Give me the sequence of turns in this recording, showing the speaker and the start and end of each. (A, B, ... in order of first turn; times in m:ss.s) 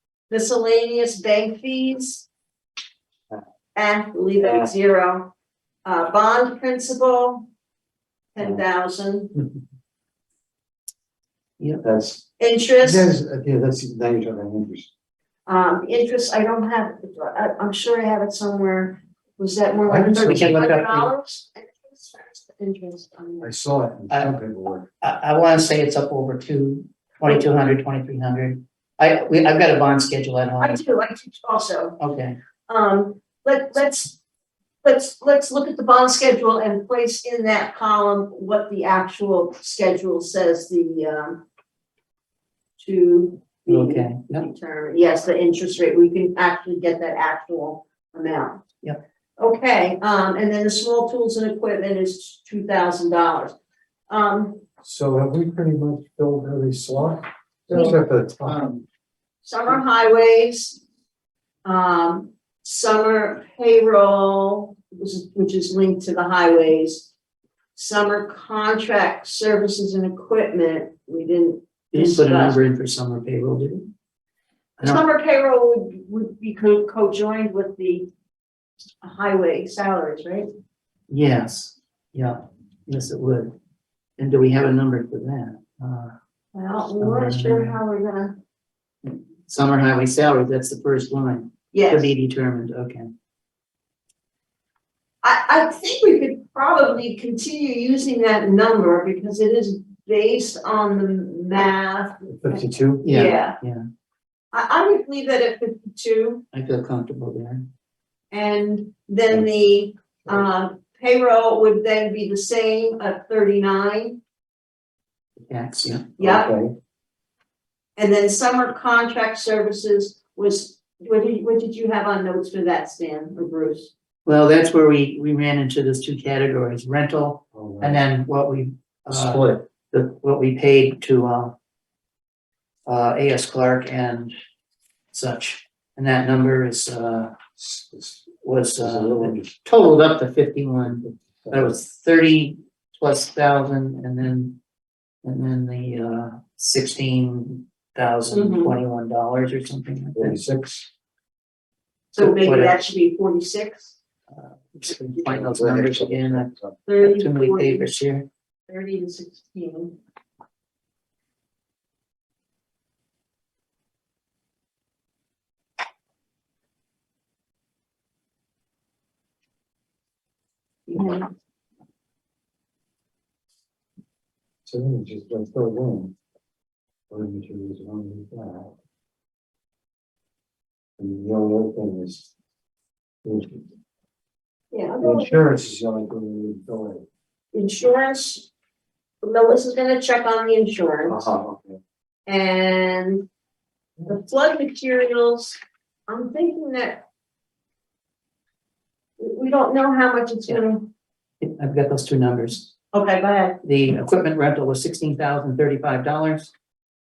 0:00.3-0:02.3 A
0:03.7-0:05.3 A
0:05.8-0:07.4 A
0:08.3-0:09.3 A
0:11.8-0:12.2 B
0:12.4-0:13.1 A
0:12.8-0:14.9 B
0:15.4-0:23.5 A
0:19.9-0:20.7 B
0:20.3-0:21.1 C
0:23.4-0:24.9 B
0:24.1-0:24.4 C
0:25.0-0:30.8 C
0:30.6-0:32.0 A
0:32.0-0:32.4 C
0:32.7-0:34.2 A
0:34.8-0:41.4 A
0:42.8-0:48.6 A
0:43.7-0:44.4 C
0:49.4-0:53.5 A
0:54.1-0:54.6 A
0:54.8-0:58.7 B
0:58.5-0:58.8 C
0:59.4-1:00.8 A
1:01.6-1:07.1 A
1:07.7-1:12.5 A
1:11.9-1:13.9 C
1:14.8-1:18.1 A
1:19.0-1:20.5 A
1:21.1-1:23.5 C
1:24.2-1:26.1 C
1:26.5-1:28.3 A
1:27.0-1:27.8 C
1:29.0-1:33.1 C
1:31.7-1:32.1 A
1:35.2-1:43.6 A
1:42.3-1:43.0 B
1:43.0-1:43.8 C
1:44.5-1:46.4 A
1:46.5-1:47.6 C
1:48.3-1:54.2 A
1:55.4-1:56.1 C
1:56.2-1:56.5 A
1:56.2-1:56.7 B
1:58.0-2:03.9 A
2:04.2-2:11.5 C
2:07.5-2:08.0 B
2:09.1-2:09.6 B
2:12.8-2:14.3 C
2:15.1-2:17.4 C
2:17.6-2:18.3 B
2:18.4-2:24.6 C
2:18.8-2:19.5 B
2:20.9-2:21.7 B
2:25.2-2:30.4 C
2:28.3-2:28.8 A
2:30.1-2:30.9 B
2:32.1-2:33.9 A
2:32.2-2:32.8 C
2:34.3-2:36.5 C
2:35.2-2:36.8 B
2:36.9-2:37.9 A
2:37.0-2:38.3 C
2:38.7-2:40.0 A
2:50.9-2:51.3 A
2:54.6-2:56.2 B
2:57.1-2:58.7 B
3:01.0-3:02.3 B
3:03.2-3:03.6 B
3:04.7-3:05.4 A
3:05.0-3:07.1 B
3:07.5-3:08.5 A
3:09.2-3:11.2 A
3:11.1-3:11.8 B
3:12.3-3:13.3 A
3:14.0-3:17.0 A
3:19.2-3:20.9 A
3:21.4-3:22.7 C
3:22.9-3:23.6 A
3:23.6-3:26.5 C